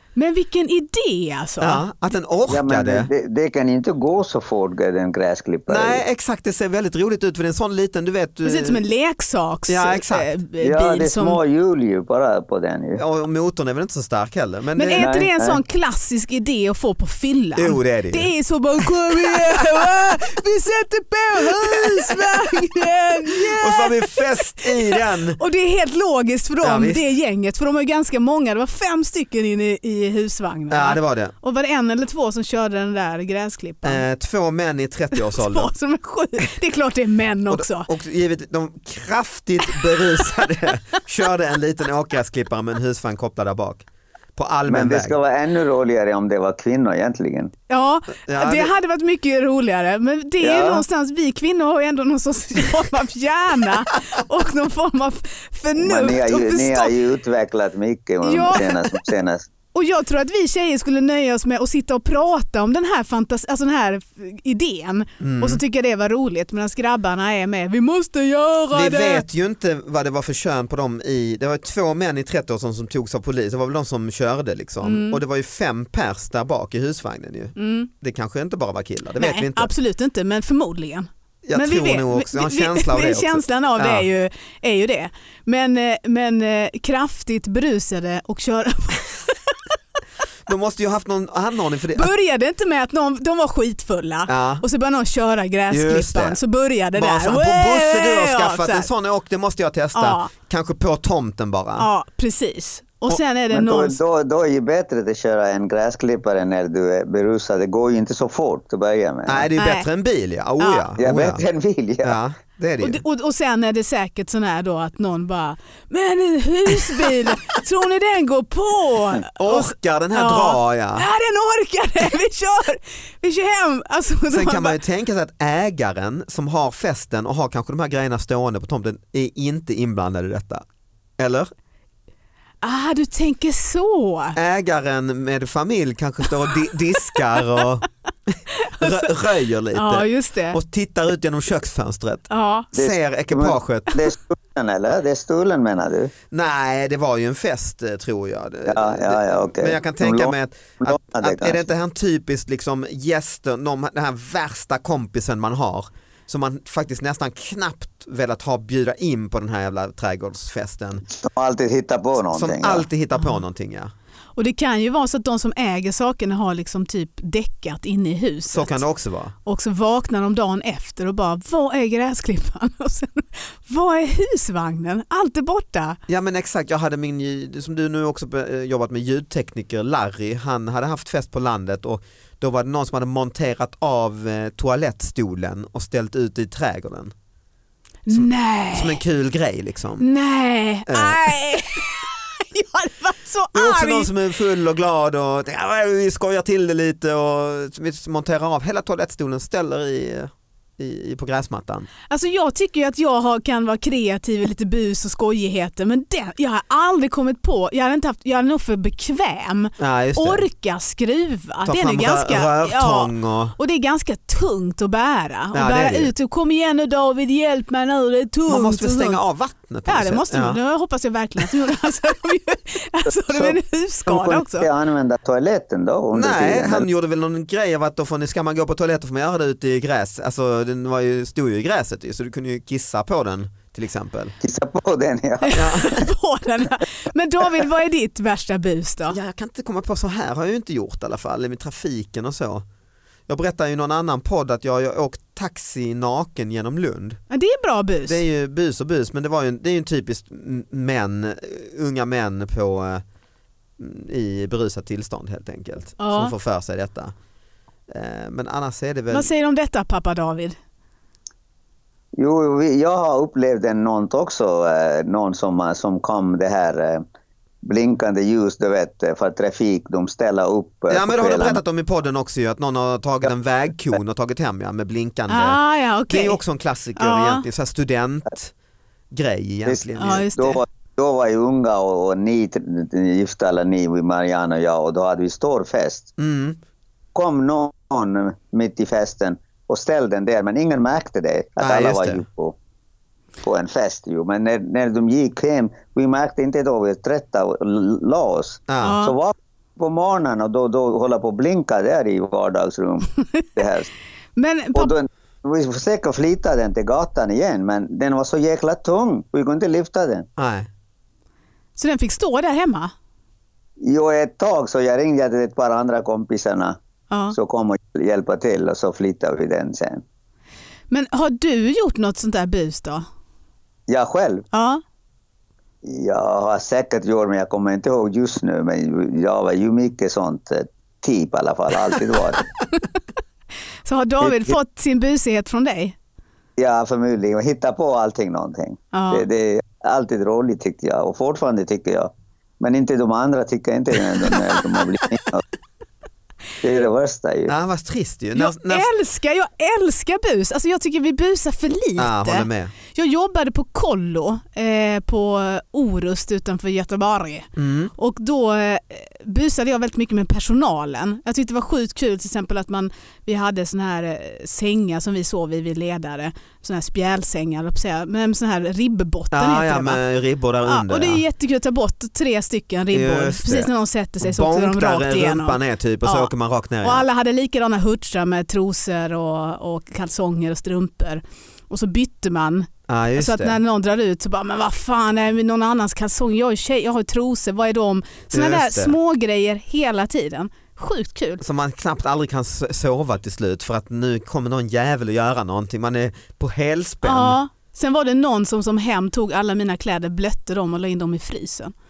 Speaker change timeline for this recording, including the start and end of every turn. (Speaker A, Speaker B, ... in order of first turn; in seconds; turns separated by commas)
Speaker A: 0.2-1.8, Speaker B: 1.6-3.1, Speaker C: 2.5-6.0, Speaker B: 5.7-8.8, Speaker A: 8.4-11.4, Speaker B: 9.7-10.3, Speaker C: 10.6-13.0, Speaker B: 13.0-15.1, Speaker A: 14.8-34.0, Speaker C: 15.0-15.6, Speaker B: 17.6-18.3, Speaker B: 18.8-20.1, Speaker B: 21.4-25.4, Speaker B: 26.6-27.1, Speaker B: 30.7-31.3, Speaker B: 33.8-35.7, Speaker A: 35.1-37.9, Speaker B: 37.5-45.2, Speaker C: 44.7-47.5, Speaker A: 47.7-56.9, Speaker B: 48.3-48.7, Speaker C: 50.4-50.8, Speaker C: 55.8-59.5, Speaker A: 58.2-59.0, Speaker A: 59.7-69.2, Speaker B: 65.2-65.6, Speaker B: 68.7-79.7, Speaker A: 74.8-75.2, Speaker A: 77.6-77.9, Speaker A: 79.2-89.6, Speaker B: 81.4-84.1, Speaker B: 90.5-92.1, Speaker A: 91.9-98.9, Speaker B: 94.3-94.6, Speaker B: 95.7-96.4, Speaker B: 96.9-101.9, Speaker A: 100.0-100.3, Speaker A: 101.8-104.0, Speaker C: 103.5-109.5, Speaker B: 109.3-111.4, Speaker A: 109.6-109.9, Speaker A: 110.6-110.9, Speaker C: 111.0-112.2, Speaker B: 112.0-113.0, Speaker A: 112.8-124.8, Speaker B: 119.4-121.1, Speaker B: 124.3-130.6, Speaker B: 131.2-131.5, Speaker A: 132.6-134.4, Speaker B: 134.3-144.0, Speaker A: 138.6-139.2, Speaker A: 139.7-140.6, Speaker A: 142.3-142.7, Speaker C: 142.8-146.1, Speaker B: 146.3-161.1, Speaker C: 148.7-151.6, Speaker C: 161.1-162.9, Speaker B: 162.3-163.9, Speaker A: 164.4-168.8, Speaker B: 168.5-169.3, Speaker A: 169.4-176.0, Speaker B: 176.1-187.1, Speaker A: 188.1-189.0, Speaker B: 188.1-190.1, Speaker A: 190.0-194.1, Speaker B: 190.9-191.3, Speaker B: 193.5-201.9, Speaker A: 202.1-219.2, Speaker B: 209.8-210.4, Speaker B: 211.7-213.6, Speaker B: 215.5-216.1, Speaker B: 218.5-220.6, Speaker A: 219.9-224.7, Speaker C: 223.3-226.9, Speaker B: 226.1-234.3, Speaker C: 234.4-235.9, Speaker A: 235.4-239.2, Speaker B: 235.5-236.1, Speaker B: 239.1-242.7, Speaker B: 243.3-247.2, Speaker A: 247.3-248.2, Speaker B: 248.1-253.0, Speaker B: 253.8-257.1, Speaker A: 256.0-256.3, Speaker B: 257.9-259.3, Speaker A: 259.1-260.6, Speaker C: 262.2-267.0, Speaker C: 267.6-271.6, Speaker B: 270.9-278.5, Speaker A: 275.3-276.4, Speaker A: 277.0-277.4, Speaker B: 279.1-280.3, Speaker C: 279.7-286.1, Speaker A: 280.0-280.6, Speaker B: 286.2-286.6, Speaker C: 287.1-292.6, Speaker B: 291.6-292.2, Speaker C: 293.4-303.9, Speaker B: 298.7-299.0, Speaker A: 298.8-299.1, Speaker A: 304.4-304.9, Speaker C: 304.8-310.3, Speaker B: 310.4-310.7, Speaker A: 311.8-312.9, Speaker C: 313.8-316.8, Speaker A: 317.1-317.4, Speaker C: 317.3-320.0, Speaker A: 320.9-323.1, Speaker C: 323.9-324.5, Speaker A: 324.5-324.8, Speaker C: 325.8-332.5, Speaker A: 333.9-336.0, Speaker C: 334.2-334.6, Speaker C: 336.6-345.4, Speaker A: 338.9-339.3, Speaker C: 346.6-347.5, Speaker B: 347.5-348.9, Speaker A: 348.4-370.0, Speaker B: 352.0-352.7, Speaker B: 357.6-357.9, Speaker B: 369.3-371.2, Speaker A: 370.6-391.4, Speaker B: 372.9-377.1, Speaker B: 382.9-383.6, Speaker B: 388.3-389.0, Speaker B: 391.4-397.4, Speaker A: 397.0-401.7